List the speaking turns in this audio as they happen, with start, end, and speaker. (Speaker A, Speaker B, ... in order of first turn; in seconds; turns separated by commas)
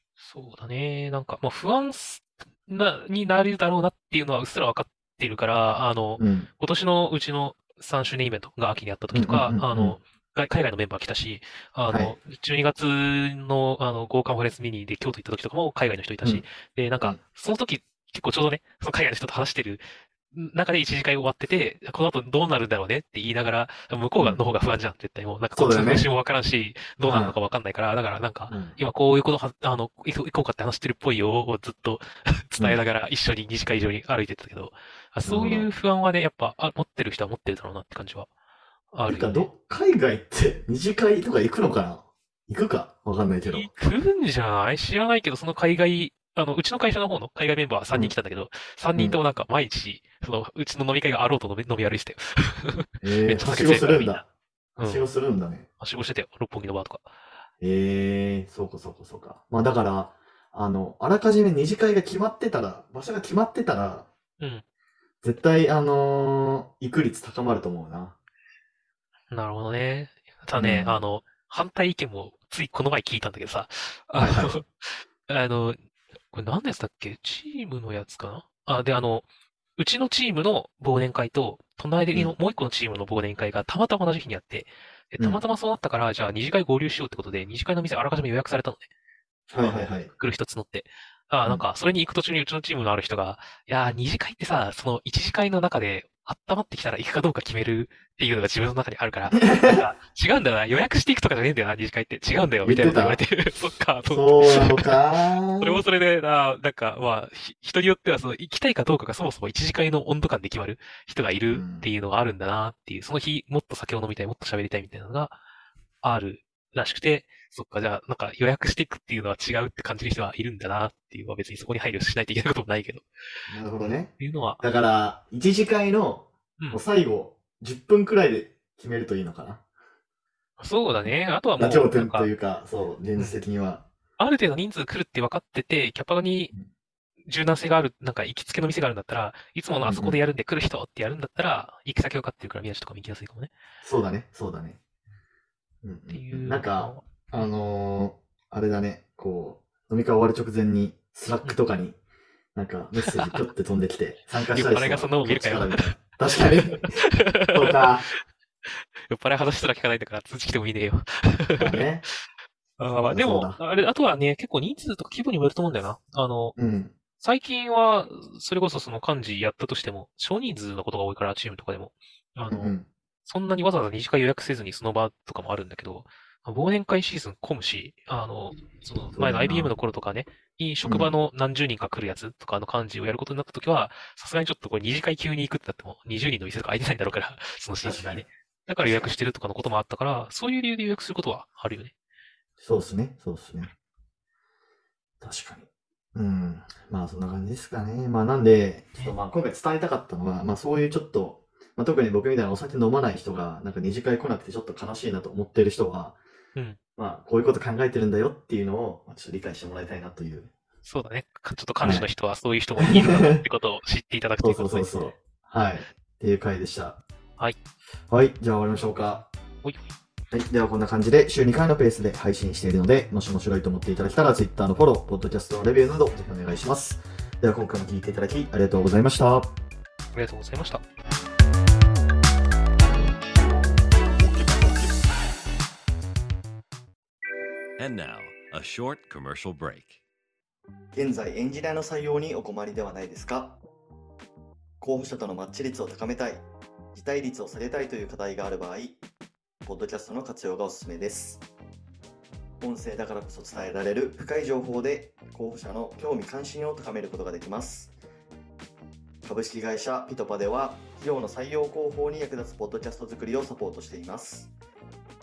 Speaker A: 0.2-38.3, Speaker B: 6.2-6.5, Speaker B: 9.1-10.0, Speaker B: 11.9-12.1, Speaker B: 25.5-26.1, Speaker B: 27.1-27.4, Speaker B: 28.5-28.8, Speaker B: 35.2-35.7, Speaker A: 38.9-39.5, Speaker B: 39.1-43.7, Speaker A: 43.4-54.2, Speaker B: 53.0-54.2, Speaker A: 54.8-55.1, Speaker B: 54.8-55.7, Speaker A: 55.8-57.1, Speaker B: 57.6-64.1, Speaker B: 65.2-68.2, Speaker A: 69.3-75.8, Speaker B: 70.5-71.0, Speaker B: 74.1-74.6, Speaker A: 76.3-88.9, Speaker B: 89.5-90.1, Speaker A: 89.6-115.4, Speaker B: 99.3-99.8, Speaker B: 102.6-103.2, Speaker B: 104.0-105.8, Speaker B: 111.5-111.9, Speaker A: 116.0-123.0, Speaker B: 123.5-129.6, Speaker A: 123.8-124.6, Speaker A: 130.6-132.3, Speaker B: 131.6-133.8, Speaker A: 134.2-136.5, Speaker A: 137.3-143.5, Speaker B: 139.8-140.2, Speaker B: 143.8-144.8, Speaker B: 145.8-152.0, Speaker A: 146.1-147.1, Speaker B: 152.5-157.0, Speaker A: 153.0-153.4, Speaker A: 154.5-156.0, Speaker A: 157.2-161.8, Speaker B: 157.5-158.1, Speaker B: 161.6-162.0, Speaker A: 162.8-166.5, Speaker B: 163.1-163.6, Speaker B: 166.6-166.9, Speaker A: 167.2-191.9, Speaker B: 172.5-172.9, Speaker B: 179.1-179.7, Speaker B: 180.8-181.1, Speaker B: 187.8-188.3, Speaker B: 188.8-189.1, Speaker B: 192.6-193.7, Speaker B: 195.2-206.2, Speaker B: 206.9-210.5, Speaker A: 210.8-214.9, Speaker B: 211.8-212.1, Speaker B: 212.8-213.4, Speaker B: 214.4-217.0, Speaker B: 218.1-219.3, Speaker A: 219.6-219.9, Speaker B: 220.3-229.5, Speaker A: 230.1-230.8, Speaker C: 234.2-234.9, Speaker C: 237.8-240.0, Speaker B: 240.9-243.6, Speaker B: 244.8-249.0, Speaker B: 249.6-251.4, Speaker B: 252.6-257.9, Speaker B: 259.2-264.5